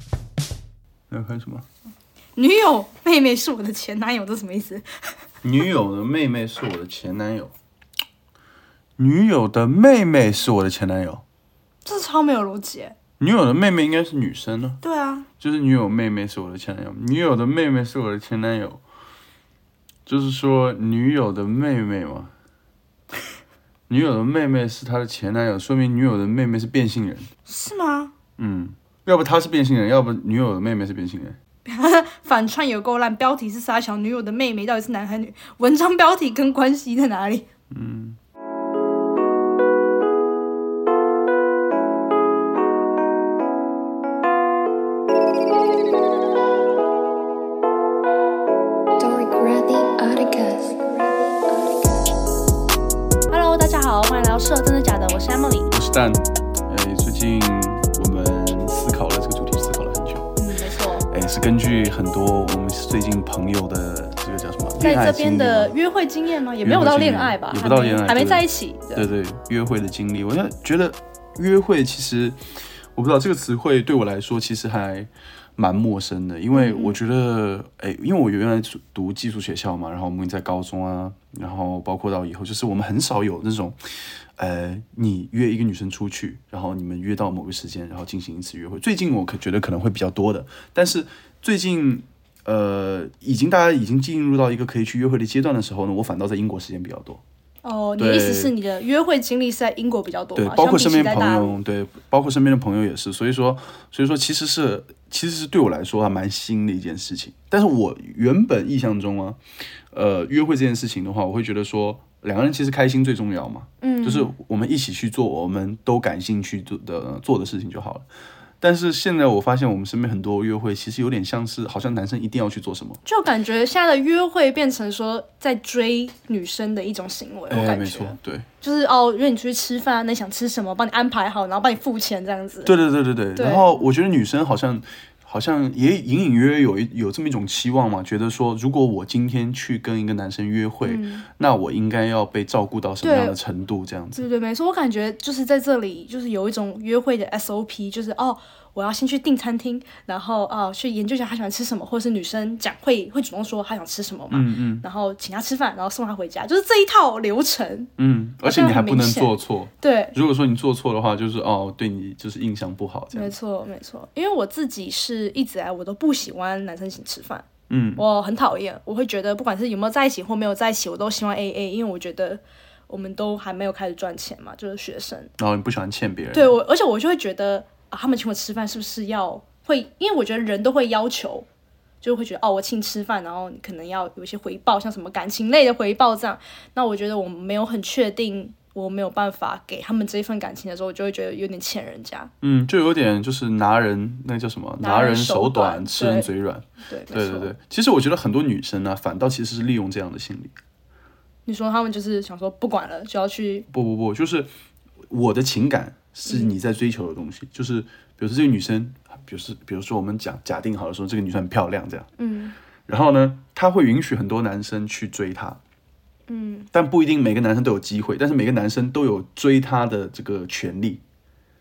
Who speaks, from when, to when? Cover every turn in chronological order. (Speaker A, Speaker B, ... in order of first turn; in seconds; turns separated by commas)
Speaker A: 1.1-1.6, Speaker B: 2.4-4.8, Speaker A: 5.4-7.5, Speaker A: 9.0-11.2, Speaker B: 11.8-12.9, Speaker A: 13.2-14.8, Speaker B: 14.8-15.3, Speaker A: 15.4-18.8, Speaker A: 20.1-22.3, Speaker A: 23.9-27.3, Speaker B: 27.4-28.1, Speaker A: 28.4-31.4, Speaker B: 31.6-37.5, Speaker A: 37.7-38.2, Speaker C: 49.0-52.2, Speaker B: 53.3-55.7, Speaker A: 55.7-60.3, Speaker B: 60.4-61.1, Speaker A: 61.1-65.7, Speaker B: 64.8-69.1, Speaker A: 66.6-72.4, Speaker A: 72.9-83.8, Speaker B: 76.5-77.0, Speaker A: 84.4-97.2, Speaker B: 97.6-101.5, Speaker A: 98.0-98.5, Speaker A: 100.3-109.4, Speaker A: 109.9-118.0, Speaker B: 113.8-114.3, Speaker A: 118.6-123.0, Speaker B: 123.0-132.7, Speaker A: 127.5-128.4, Speaker A: 132.6-144.2, Speaker B: 133.3-133.7, Speaker B: 140.8-141.2, Speaker B: 143.0-143.4, Speaker B: 144.2-157.9, Speaker A: 154.3-154.8, Speaker A: 158.0-163.3, Speaker B: 158.4-160.2, Speaker B: 163.1-167.4, Speaker A: 167.7-168.0, Speaker B: 168.0-175.3, Speaker A: 175.4-176.6, Speaker B: 176.3-181.4, Speaker B: 182.0-192.3, Speaker A: 192.4-200.5, Speaker B: 194.8-196.3, Speaker B: 196.8-197.5, Speaker B: 201.4-203.7, Speaker A: 203.7-204.5, Speaker A: 205.1-212.1, Speaker B: 206.3-206.5, Speaker B: 212.2-212.5, Speaker A: 212.9-215.6, Speaker B: 216.3-216.7, Speaker A: 216.7-221.0